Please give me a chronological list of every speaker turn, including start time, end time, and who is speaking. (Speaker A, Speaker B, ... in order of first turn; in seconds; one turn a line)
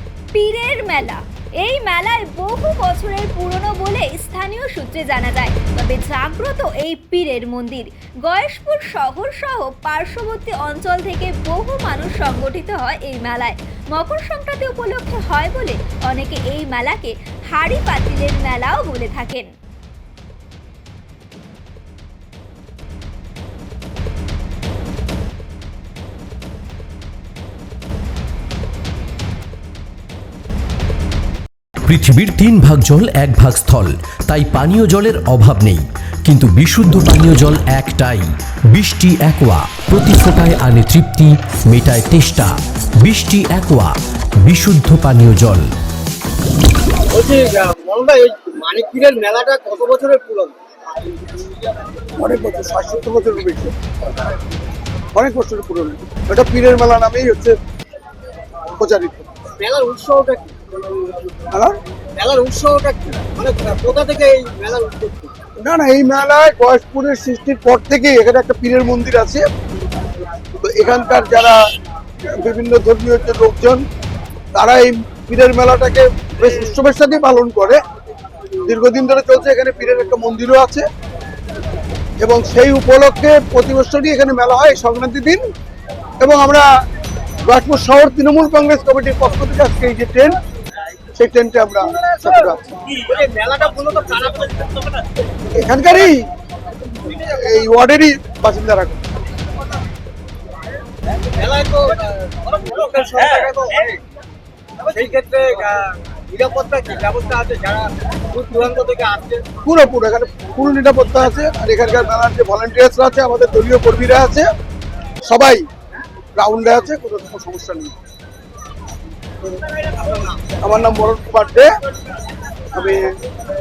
Speaker A: 0.3-19.5
Speaker B: 31.9-45.7
Speaker C: 47.1-50.5
Speaker D: 52.2-53.7
Speaker D: 55.1-57.6
Speaker D: 58.8-59.3
Speaker C: 59.6-60.5
Speaker C: 62.2-65.3
Speaker D: 65.6-69.5
Speaker D: 70.6-71.5
Speaker D: 72.3-73.8
Speaker D: 74.5-77.8
Speaker D: 78.7-80.9
Speaker D: 82.2-85.4
Speaker D: 86.2-86.6
Speaker D: 87.5-90.3
Speaker D: 91.2-92.6
Speaker C: 93.1-94.6
Speaker D: 95.5-96.3
Speaker D: 97.1-99.0
Speaker C: 101.4-101.8
Speaker C: 102.4-103.9
Speaker C: 104.9-105.7
Speaker C: 106.3-109.4
Speaker D: 109.6-114.5
Speaker D: 115.2-115.7
Speaker D: 116.4-117.9
Speaker D: 120.6-121.7
Speaker D: 122.7-123.0